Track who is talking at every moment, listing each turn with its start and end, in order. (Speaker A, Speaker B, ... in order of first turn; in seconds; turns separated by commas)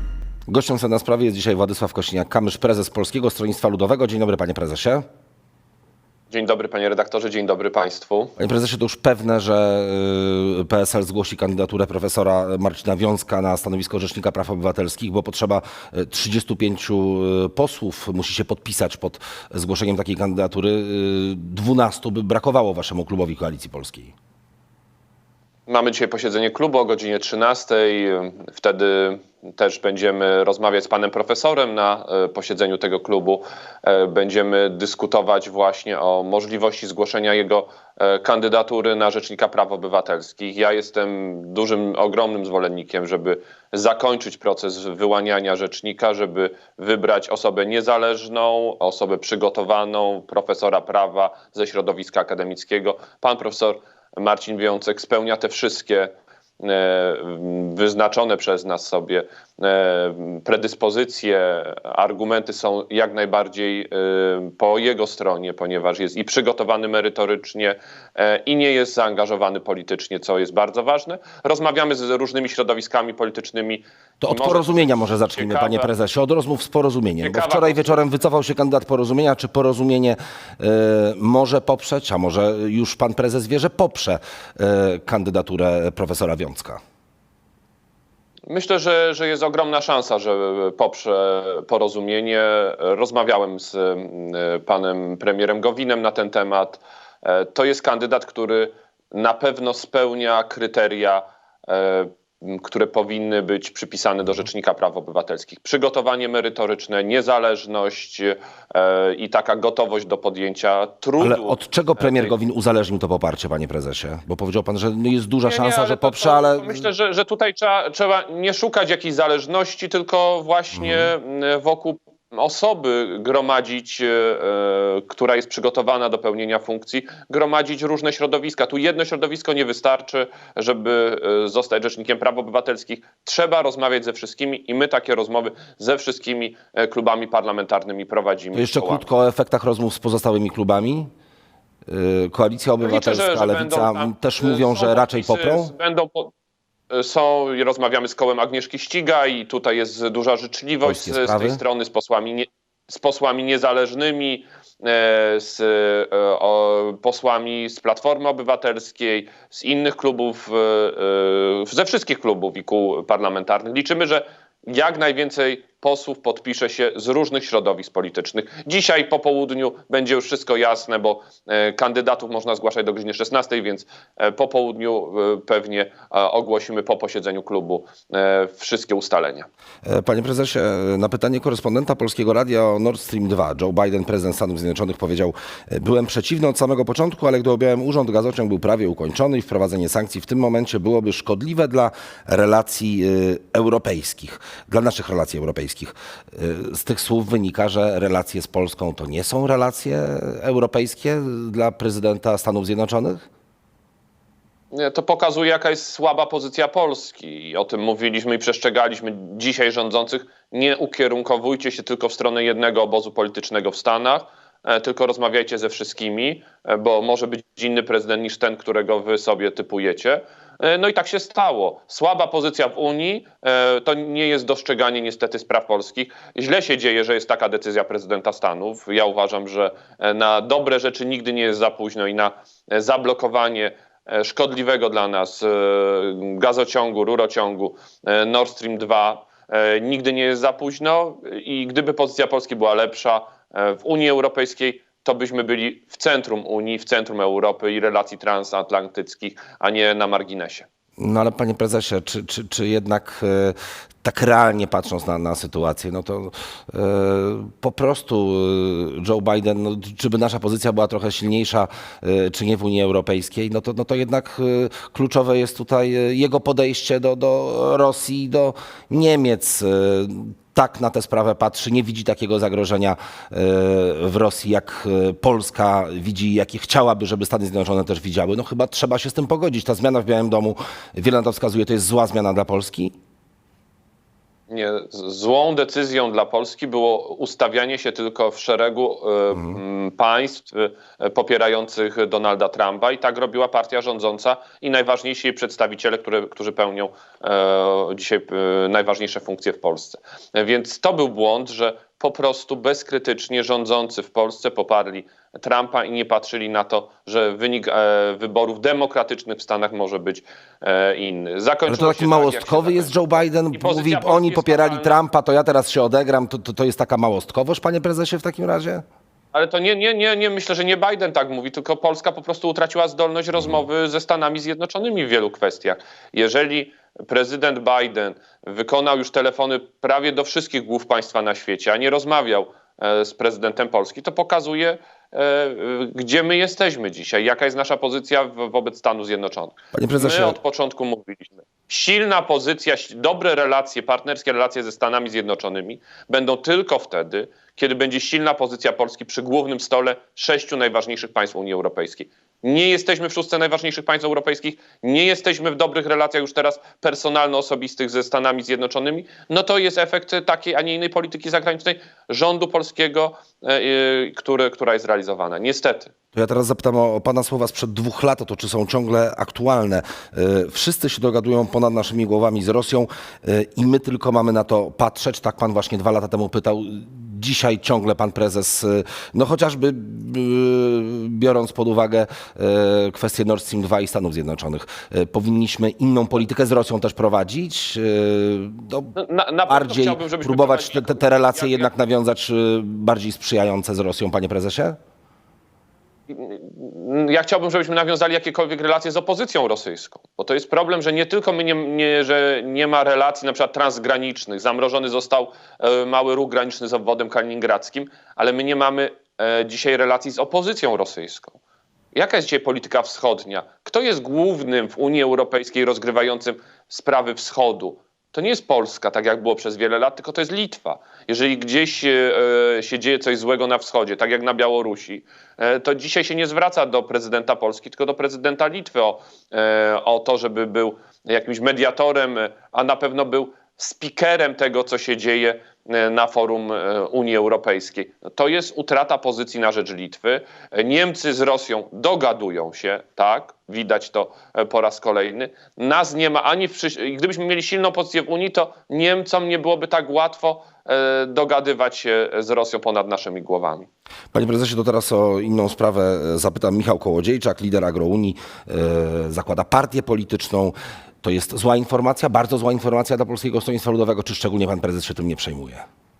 Speaker A: 0.5-5.0, Speaker B: 6.3-8.3, Speaker A: 8.4-24.1, Speaker B: 25.7-75.9, Speaker A: 74.2-86.8, Speaker B: 77.2-78.1, Speaker B: 88.5-112.4, Speaker A: 111.2-116.9, Speaker B: 115.5-139.1, Speaker A: 120.7-121.1, Speaker A: 138.5-141.1, Speaker A: 141.9-145.7, Speaker B: 142.8-146.3, Speaker B: 146.9-179.5, Speaker A: 150.8-151.6, Speaker A: 179.8-203.2, Speaker B: 204.7-250.7, Speaker A: 251.0-282.9, Speaker B: 284.5-315.0, Speaker A: 311.7-318.8, Speaker B: 319.3-365.9, Speaker A: 339.7-340.4, Speaker A: 366.1-388.9, Speaker B: 388.9-391.7, Speaker A: 389.5-394.8, Speaker B: 396.1-411.4, Speaker B: 411.9-453.7, Speaker A: 454.1-465.6